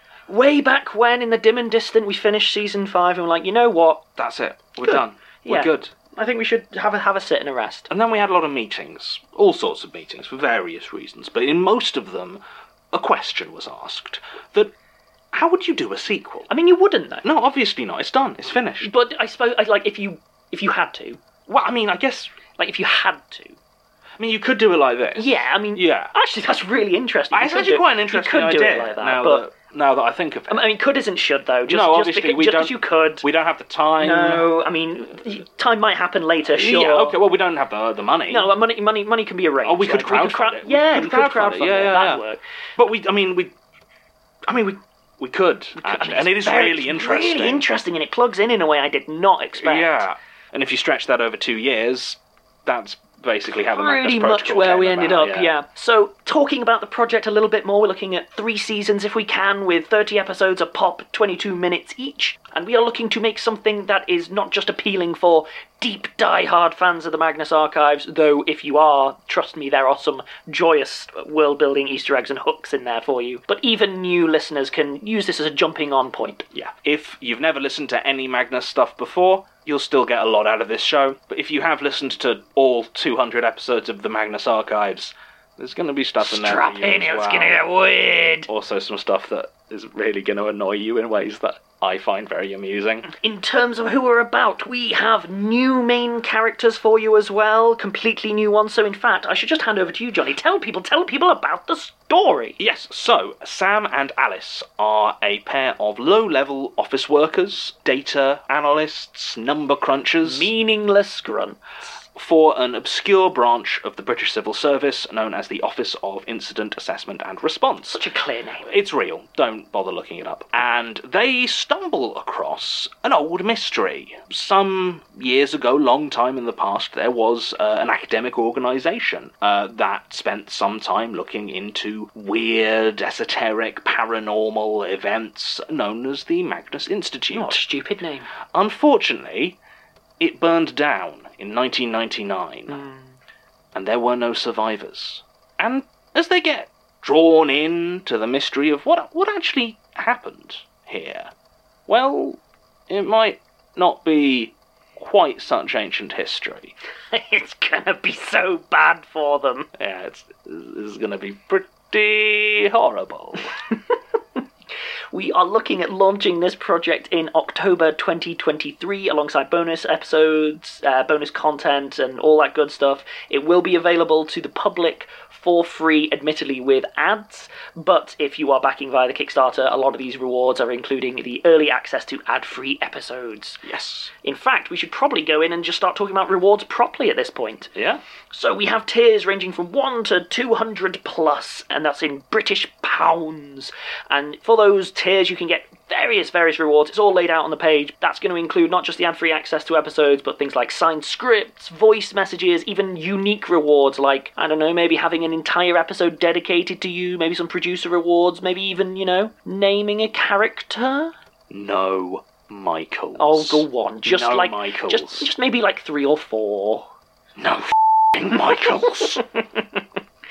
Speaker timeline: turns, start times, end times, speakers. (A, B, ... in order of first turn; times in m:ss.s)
0:00.3-0:04.0 A
0:04.2-0:05.9 B
0:04.8-0:07.9 A
0:07.9-0:12.4 B
0:12.9-0:14.7 B
0:15.3-0:16.5 B
0:16.5-0:17.2 A
0:17.2-0:18.9 B
0:18.8-0:21.2 A
0:21.5-0:22.3 B
0:22.6-0:23.6 A
0:24.2-0:26.1 B
0:25.2-0:29.4 A
0:27.3-0:30.6 B
0:30.5-0:33.3 A
0:31.7-0:34.5 B
0:34.0-0:37.2 A
0:36.5-0:38.5 B
0:38.3-0:42.4 A
0:39.6-0:42.2 B
0:42.8-0:43.6 B
0:44.5-0:47.6 B
0:45.8-0:50.1 A
0:49.6-0:55.5 B
0:53.5-1:16.7 A
1:16.7-1:27.6 B
1:26.2-1:28.5 A
1:28.5-1:33.1 B
1:33.1-1:42.6 A
1:42.6-1:50.5 B
1:50.2-1:51.6 A
1:52.2-1:58.0 B
1:57.9-1:58.7 A
1:58.6-2:17.6 B
2:17.3-2:18.3 A
2:18.5-2:19.6 B
2:20.2-2:22.8 B
2:22.7-2:23.2 A
2:23.7-2:31.3 B
2:31.9-2:36.7 B
2:37.1-2:39.7 A
2:39.8-2:43.5 B
2:43.7-2:44.0 A
2:45.1-3:03.6 A
3:03.6-3:04.1 B
3:04.2-3:07.7 A
3:07.8-3:08.0 B
3:08.3-3:31.1 A
3:31.5-3:35.3 B
3:33.2-3:36.9 A
3:37.4-3:39.2 B
3:38.5-3:39.8 A